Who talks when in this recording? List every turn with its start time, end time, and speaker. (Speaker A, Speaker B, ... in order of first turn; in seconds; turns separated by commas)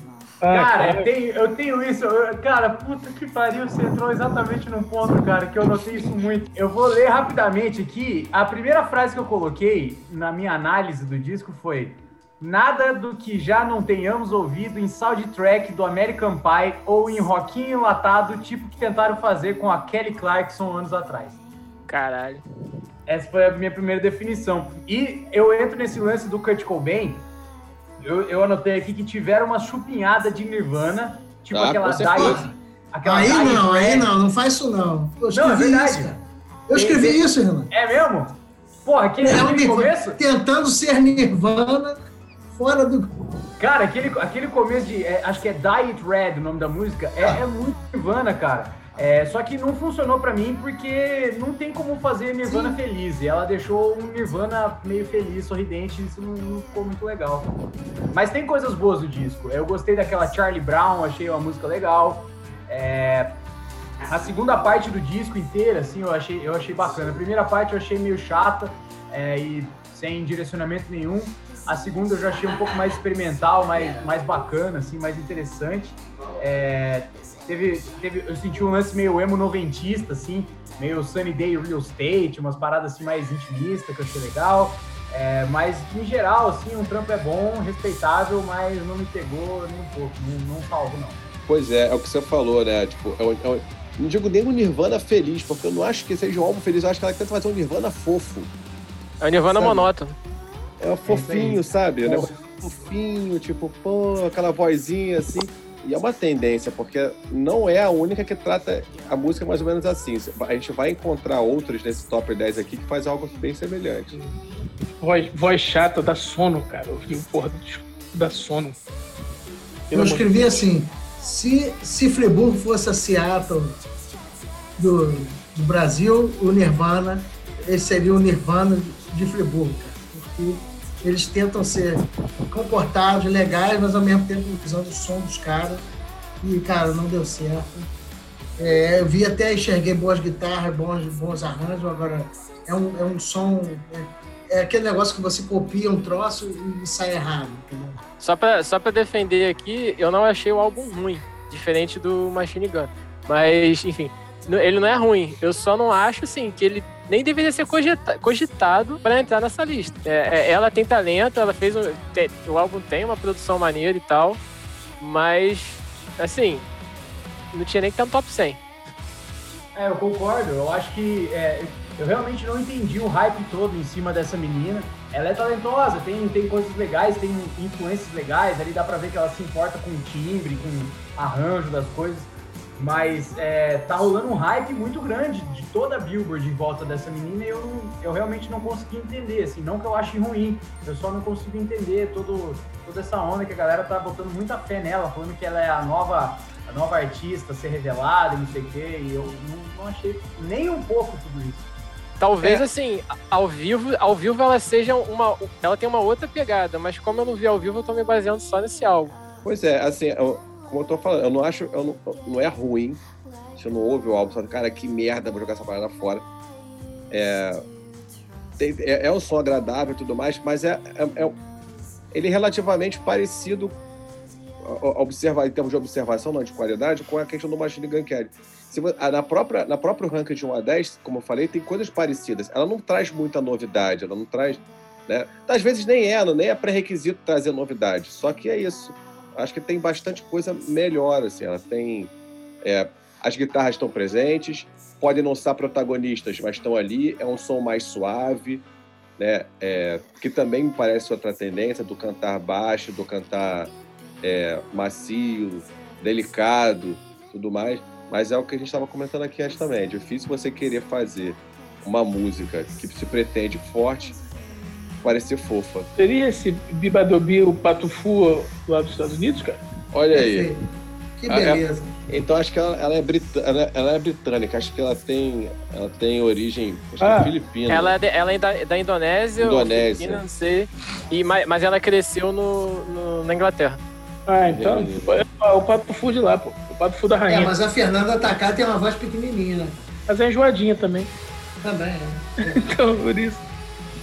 Speaker A: 0.4-1.1, Speaker B: 0.5-21.4, Speaker C: 21.9-22.4, Speaker B: 23.1-27.2, Speaker B: 28.0-34.1, Speaker D: 31.5-32.4, Speaker E: 31.9-37.7, Speaker B: 35.3-36.1, Speaker B: 36.7-40.2, Speaker E: 39.2-43.2, Speaker B: 43.6-57.5, Speaker E: 52.4-52.8, Speaker B: 58.1-63.4, Speaker B: 64.0-91.2, Speaker D: 91.5-98.5, Speaker C: 99.2-100.2, Speaker D: 99.5-99.8, Speaker D: 100.8-114.2, Speaker B: 101.0-102.1, Speaker A: 115.0-118.8, Speaker A: 119.9-120.6, Speaker E: 119.9-123.8, Speaker E: 124.8-135.8, Speaker E: 136.4-137.9, Speaker E: 138.6-148.0, Speaker C: 148.2-164.4, Speaker C: 165.0-166.7, Speaker C: 167.5-168.6, Speaker B: 169.7-201.7, Speaker C: 202.2-209.1, Speaker D: 209.4-213.0, Speaker D: 213.6-216.2, Speaker D: 217.1-217.6, Speaker D: 218.6-221.3, Speaker D: 222.1-223.8, Speaker D: 224.6-242.1, Speaker D: 242.6-248.7, Speaker D: 249.2-264.1, Speaker D: 265.0-265.9, Speaker A: 266.0-269.6, Speaker D: 269.9-270.5, Speaker E: 270.1-270.6, Speaker E: 271.2-271.9, Speaker D: 271.3-278.0, Speaker A: 277.0-277.3, Speaker C: 277.7-283.8, Speaker D: 279.4-280.2, Speaker A: 284.3-287.5, Speaker D: 284.5-285.2, Speaker E: 287.3-289.8, Speaker A: 290.1-291.1, Speaker E: 291.6-292.8, Speaker A: 292.5-293.4